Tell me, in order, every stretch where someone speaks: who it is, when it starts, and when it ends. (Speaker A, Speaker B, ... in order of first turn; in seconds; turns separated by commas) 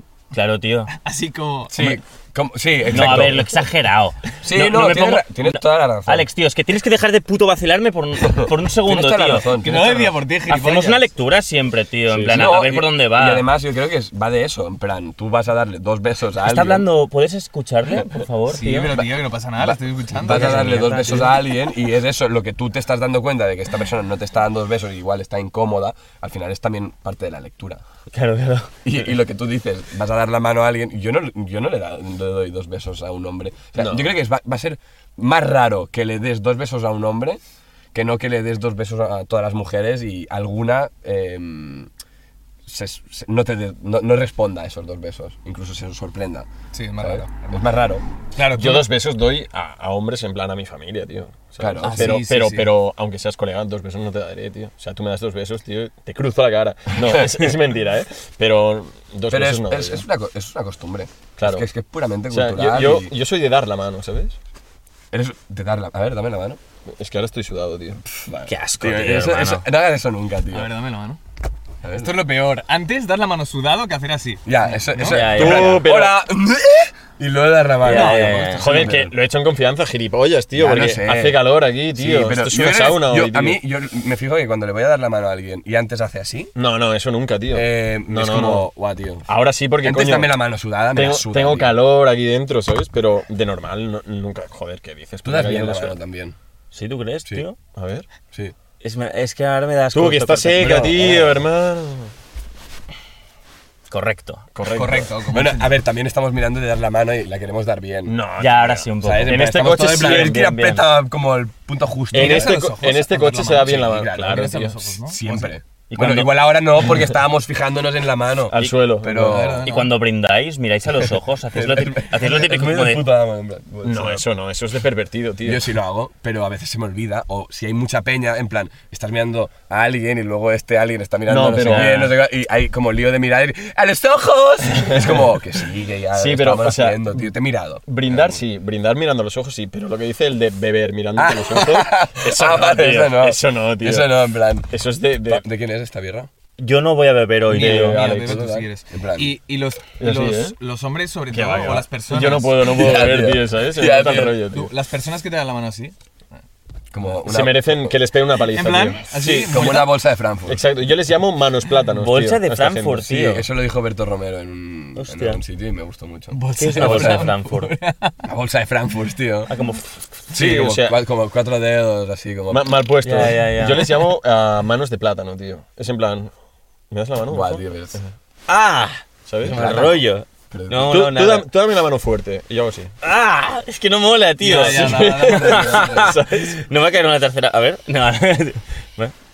Speaker A: 0.3-0.9, Speaker B: 0.9-1.9, Speaker C: 1.7-3.5, Speaker A: 2.9-9.5, Speaker C: 4.4-6.3, Speaker C: 8.2-10.1, Speaker B: 9.6-11.1, Speaker A: 10.5-13.4, Speaker D: 12.1-12.5, Speaker C: 12.3-16.9, Speaker A: 16.4-19.0, Speaker B: 18.5-21.1, Speaker C: 19.6-27.8, Speaker A: 20.1-21.4, Speaker A: 28.1-28.8, Speaker C: 28.8-37.4, Speaker D: 33.8-34.1, Speaker C: 37.9-41.9, Speaker C: 42.6-46.5, Speaker B: 46.7-47.8, Speaker C: 47.0-48.0, Speaker B: 48.3-48.9, Speaker D: 48.5-60.0, Speaker C: 51.6-52.2, Speaker B: 51.8-52.7, Speaker C: 59.3-63.1, Speaker D: 61.4-61.6, Speaker D: 62.3-64.3, Speaker C: 65.1-66.6, Speaker D: 66.8-68.0, Speaker C: 68.0-70.7, Speaker A: 68.5-69.7, Speaker B: 70.5-71.2, Speaker C: 71.8-72.1, Speaker B: 71.9-75.5, Speaker C: 74.4-79.2, Speaker A: 75.0-75.9, Speaker D: 75.2-76.2, Speaker A: 77.8-78.9, Speaker B: 77.9-78.4, Speaker D: 77.9-83.6, Speaker C: 80.5-86.5, Speaker D: 86.5-88.7, Speaker C: 87.5-89.3, Speaker D: 89.3-90.3, Speaker C: 89.8-91.8, Speaker D: 90.9-95.9, Speaker C: 95.2-96.3, Speaker A: 96.7-97.6, Speaker D: 97.7-98.0, Speaker A: 98.8-101.3, Speaker D: 99.9-102.1, Speaker C: 100.6-101.1, Speaker A: 103.9-104.4, Speaker D: 104.5-105.1, Speaker B: 104.7-105.7, Speaker C: 105.3-108.1, Speaker D: 108.0-110.5, Speaker A: 108.4-110.8, Speaker C: 109.0-112.6, Speaker D: 112.1-114.8, Speaker B: 112.1-115.5, Speaker C: 113.4-119.7, Speaker A: 115.9-116.3, Speaker D: 118.5-119.6, Speaker B: 119.1-120.0, Speaker A: 119.7-123.0, Speaker C: 121.5-124.2, Speaker D: 123.8-125.6, Speaker C: 125.4-138.4, Speaker D: 131.3-132.2, Speaker A: 131.6-132.0, Speaker D: 134.9-135.2, Speaker D: 136.1-137.2, Speaker D: 137.8-145.4, Speaker C: 141.2-144.7, Speaker C: 145.2-146.3, Speaker A: 146.6-148.3, Speaker B: 147.5-152.8, Speaker D: 147.5-148.3, Speaker C: 147.8-149.3, Speaker D: 150.0-150.6, Speaker D: 151.3-154.7, Speaker C: 152.6-154.4, Speaker B: 154.5-155.9, Speaker C: 156.9-157.9, Speaker D: 157.2-159.7, Speaker B: 158.4-160.0, Speaker C: 159.5-160.6, Speaker D: 160.5-163.1, Speaker A: 161.9-163.4, Speaker C: 163.1-167.3, Speaker A: 165.0-165.4, Speaker B: 166.3-168.2, Speaker A: 166.6-167.7, Speaker C: 168.2-169.5, Speaker A: 169.5-170.2, Speaker D: 170.3-171.0, Speaker C: 170.3-173.2, Speaker D: 172.5-176.3, Speaker A: 173.0-174.2, Speaker D: 176.9-178.1, Speaker C: 177.3-178.0, Speaker A: 178.5-181.5, Speaker D: 179.3-180.0, Speaker C: 179.4-180.9, Speaker D: 180.7-182.9, Speaker A: 183.0-189.1, Speaker B: 184.4-186.1, Speaker D: 184.4-186.6